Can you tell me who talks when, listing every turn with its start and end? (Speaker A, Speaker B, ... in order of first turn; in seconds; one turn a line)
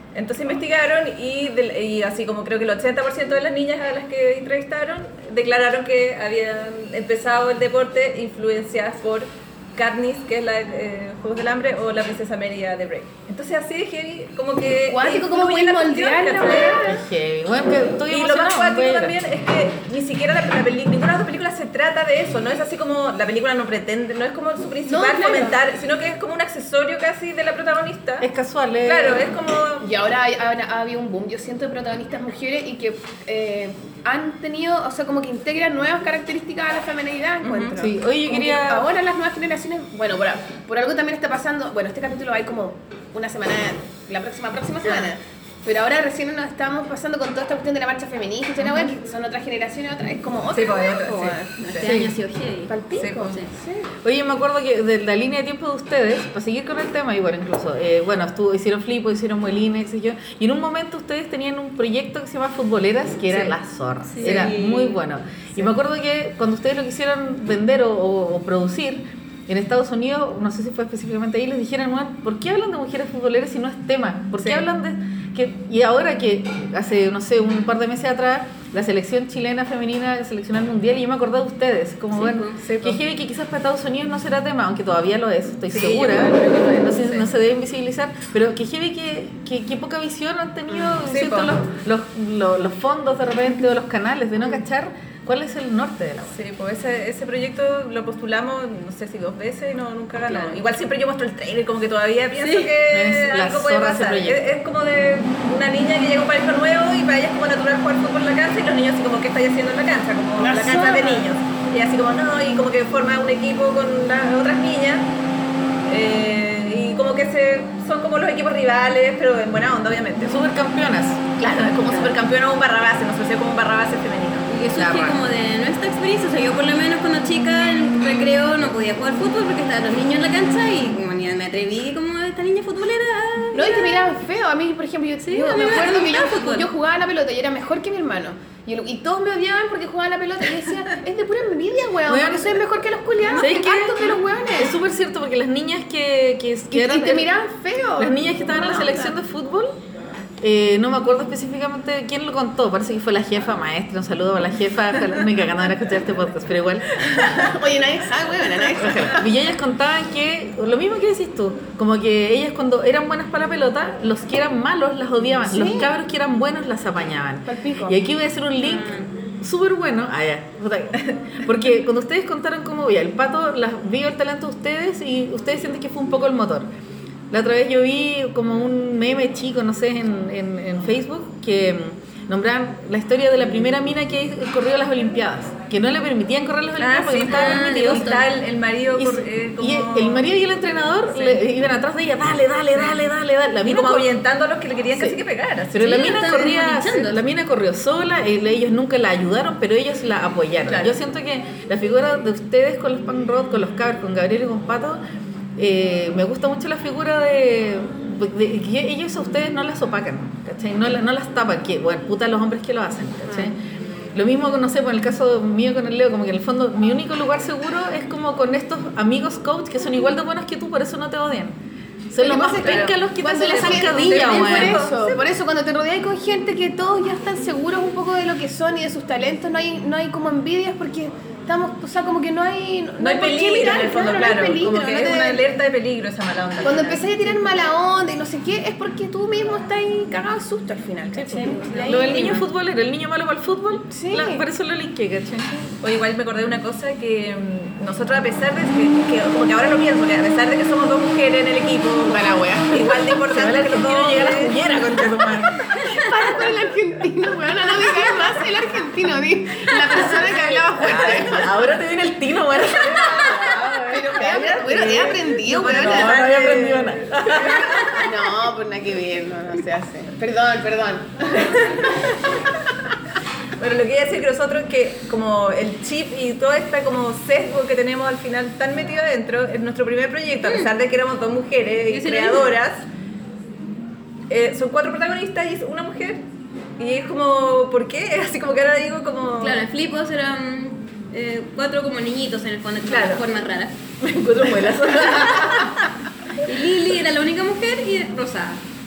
Speaker A: 0.1-16.9
Speaker B: 14.9-17.0
Speaker C: 16.9-19.1
Speaker A: 18.1-28.3
Speaker B: 24.9-25.6
Speaker C: 28.2-29.3
Speaker A: 28.8-29.9
Speaker B: 29.8-51.5
Speaker A: 37.4-37.8
Speaker C: 37.8-38.9
Speaker A: 50.5-51.9
Speaker D: 51.6-53.5
Speaker C: 51.8-52.1
Speaker B: 52.7-53.9
Speaker A: 52.9-53.3
Speaker C: 54.0-96.4
Speaker D: 64.1-64.7
Speaker A: 64.2-64.9
Speaker A: 74.4-74.6
Speaker D: 82.1-82.6
Speaker A: 82.6-83.0
Speaker A: 85.7-87.3
Speaker A: 91.0-91.6
Speaker A: 96.3-115.1
Speaker D: 102.4-102.7
Speaker C: 102.8-104.4
Speaker B: 110.4-111.3
Speaker A: 115.8-120.3
Speaker C: 120.2-121.9
Speaker A: 121.4-124.5
Speaker D: 121.8-122.1
Speaker D: 124.5-134.1
Speaker C: 124.7-125.2
Speaker B: 133.5-144.8
Speaker D: 135.2-136.7
Speaker C: 142.0-142.6
Speaker C: 143.3-147.3
Speaker B: 146.7-149.1
Speaker C: 148.0-149.7
Speaker C: 150.4-156.9
Speaker B: 157.3-159.3
Speaker C: 158.8-176.7
Speaker B: 165.5-165.9
Speaker B: 167.4-168.0
Speaker D: 168.6-169.1
Speaker C: 177.3-188.2
Speaker A: 186.8-190.3
Speaker D: 187.2-188.3
Speaker C: 188.9-194.1
Speaker A: 193.6-196.5
Speaker C: 194.9-195.2
Speaker C: 195.7-205.0
Speaker D: 195.8-197.2
Speaker A: 200.7-200.9
Speaker C: 205.6-213.6
Speaker C: 214.1-221.6
Speaker C: 222.1-224.9
Speaker B: 222.2-235.4
Speaker A: 222.6-225.2
Speaker A: 233.0-237.1
Speaker B: 236.6-242.5
Speaker C: 241.1-245.7
Speaker D: 241.3-242.4
Speaker B: 243.9-244.4
Speaker A: 245.8-254.7
Speaker B: 252.0-253.1
Speaker C: 253.2-255.8
Speaker B: 255.8-261.7
Speaker C: 260.3-268.1
Speaker A: 263.1-263.4
Speaker B: 263.2-266.4
Speaker A: 265.5-268.0
Speaker B: 268.0-271.7
Speaker A: 271.4-272.0
Speaker A: 273.6-282.9
Speaker D: 280.4-280.7
Speaker D: 281.9-282.5
Speaker A: 284.3-286.2
Speaker A: 286.8-289.6
Speaker D: 289.4-293.8
Speaker A: 292.9-293.2
Speaker C: 294.1-295.3
Speaker A: 294.2-295.9
Speaker D: 296.4-298.6